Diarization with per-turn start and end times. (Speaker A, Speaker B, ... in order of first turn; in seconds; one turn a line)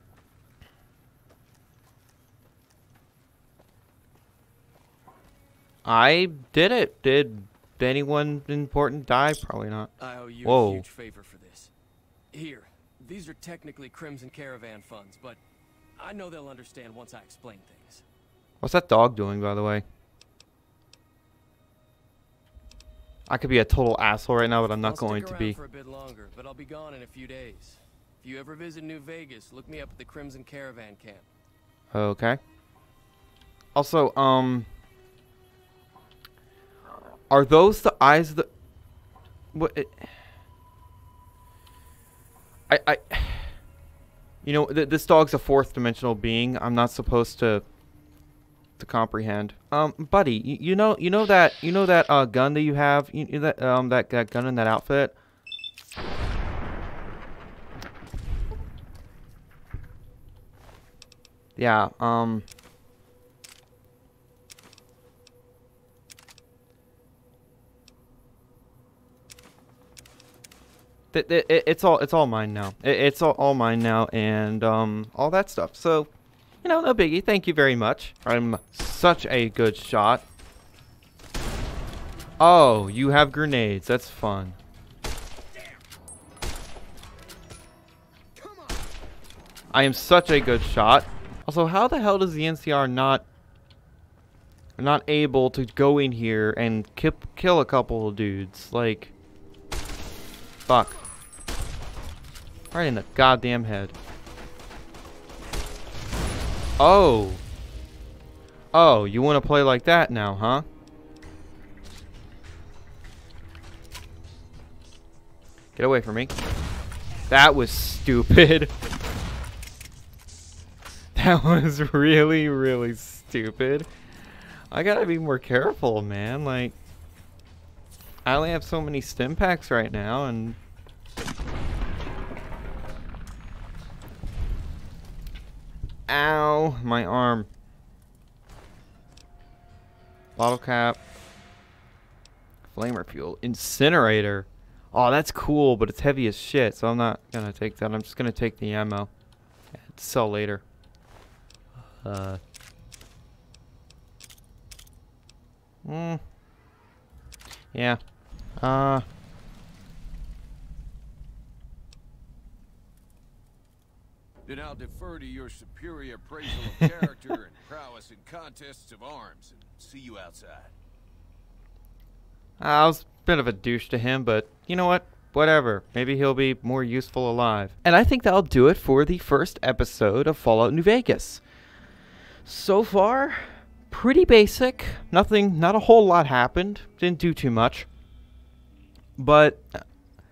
Speaker A: 5.8-9.9
Speaker B: 10.0-11.7
Speaker A: 10.4-10.8
Speaker B: 12.3-15.4
Speaker B: 16.0-18.0
Speaker A: 18.6-19.8
Speaker A: 23.3-25.6
Speaker B: 24.6-31.2
Speaker A: 31.9-32.4
Speaker A: 33.7-34.7
Speaker A: 37.3-38.5
Speaker A: 39.5-40.0
Speaker A: 42.7-43.5
Speaker A: 44.4-47.6
Speaker A: 48.8-55.1
Speaker A: 61.6-62.4
Speaker A: 71.1-76.1
Speaker A: 76.6-80.2
Speaker A: 82.4-84.6
Speaker A: 89.7-93.2
Speaker A: 94.8-99.1
Speaker A: 100.7-101.0
Speaker A: 102.7-104.0
Speaker A: 106.8-107.4
Speaker A: 108.7-110.6
Speaker A: 115.7-116.3
Speaker A: 117.3-118.7
Speaker A: 121.1-123.9
Speaker A: 124.7-126.8
Speaker A: 128.2-130.6
Speaker A: 136.1-137.5
Speaker A: 140.3-141.0
Speaker A: 142.7-149.1
Speaker A: 149.8-150.6
Speaker A: 152.0-152.4
Speaker A: 155.8-156.2
Speaker A: 157.7-158.0
Speaker A: 158.6-159.0
Speaker C: 164.4-170.7
Speaker A: 172.6-181.4
Speaker A: 182.4-187.9
Speaker A: 189.2-189.8